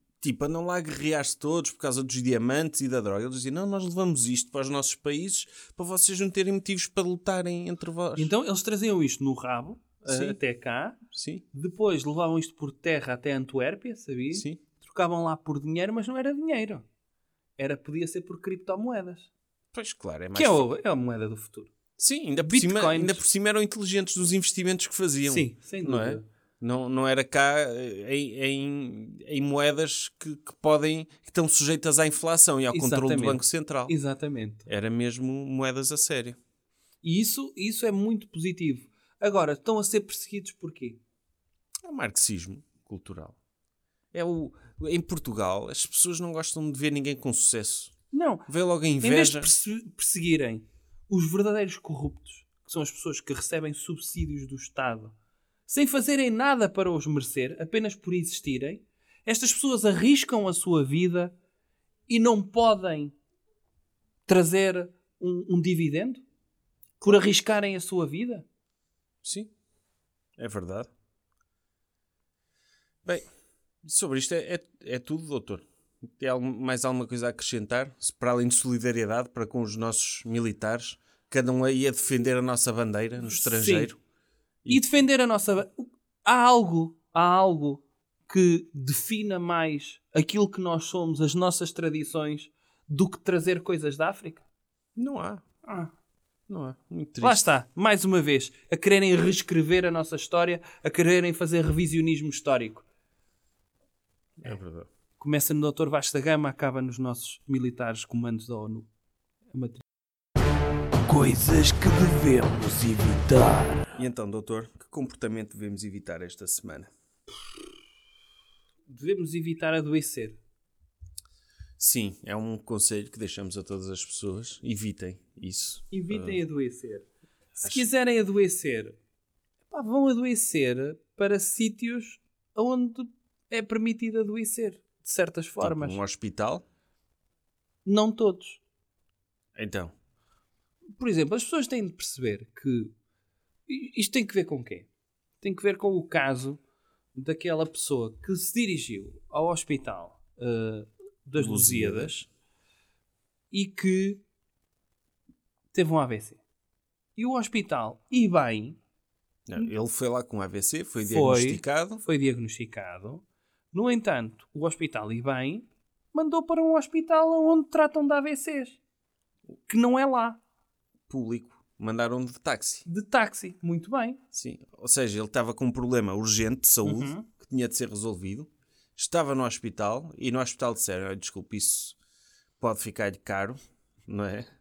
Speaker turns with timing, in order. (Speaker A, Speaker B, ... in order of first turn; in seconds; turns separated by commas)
Speaker A: 0.1-8.3, Speaker B: 8.2-11.0, Speaker A: 10.1-10.4, Speaker A: 11.1-11.4, Speaker B: 11.5-16.8, Speaker A: 14.3-14.6, Speaker B: 17.6-19.3, Speaker A: 19.7-20.6, Speaker B: 20.3-21.7, Speaker A: 22.0-33.9, Speaker B: 22.4-23.2, Speaker B: 25.3-26.2, Speaker B: 32.7-34.7, Speaker A: 34.7-36.4, Speaker B: 37.0-41.0, Speaker A: 41.8-43.4, Speaker A: 44.1-48.0, Speaker B: 48.1-48.5, Speaker A: 48.5-49.5, Speaker B: 49.0-55.1, Speaker B: 55.7-61.3, Speaker B: 62.1-63.1, Speaker B: 64.3-66.2, Speaker B: 67.0-68.5, Speaker A: 69.2-69.5, Speaker A: 70.4-70.9, Speaker A: 73.0-73.3, Speaker A: 73.8-84.0, Speaker B: 83.3-83.9, Speaker B: 84.7-94.4, Speaker A: 95.0-95.4, Speaker B: 95.6-95.9, Speaker A: 96.5-97.5, Speaker B: 97.2-102.8, Speaker A: 104.4-104.9, Speaker B: 105.2-108.9, Speaker B: 109.5-109.8, Speaker C: 111.1-114.0, Speaker A: 114.0-116.9, Speaker B: 118.9-120.4, Speaker A: 121.8-126.4, Speaker B: 125.9-128.9, Speaker B: 129.7-136.0, Speaker A: 135.6-136.6, Speaker B: 137.8-138.6, Speaker A: 139.6-139.9, Speaker B: 141.0-142.9, Speaker B: 143.7-144.9, Speaker B: 145.4-146.6, Speaker B: 147.1-152.2, Speaker A: 151.4-152.3, Speaker B: 153.5-154.2, Speaker B: 155.7-156.4, Speaker B: 157.2-158.8, Speaker A: 159.5-162.0, Speaker B: 161.0-168.8, Speaker B: 169.7-170.4, Speaker A: 171.1-172.8, Speaker B: 172.8-174.2, Speaker A: 174.3-181.9, Speaker B: 176.8-177.3, Speaker A: 182.6-184.5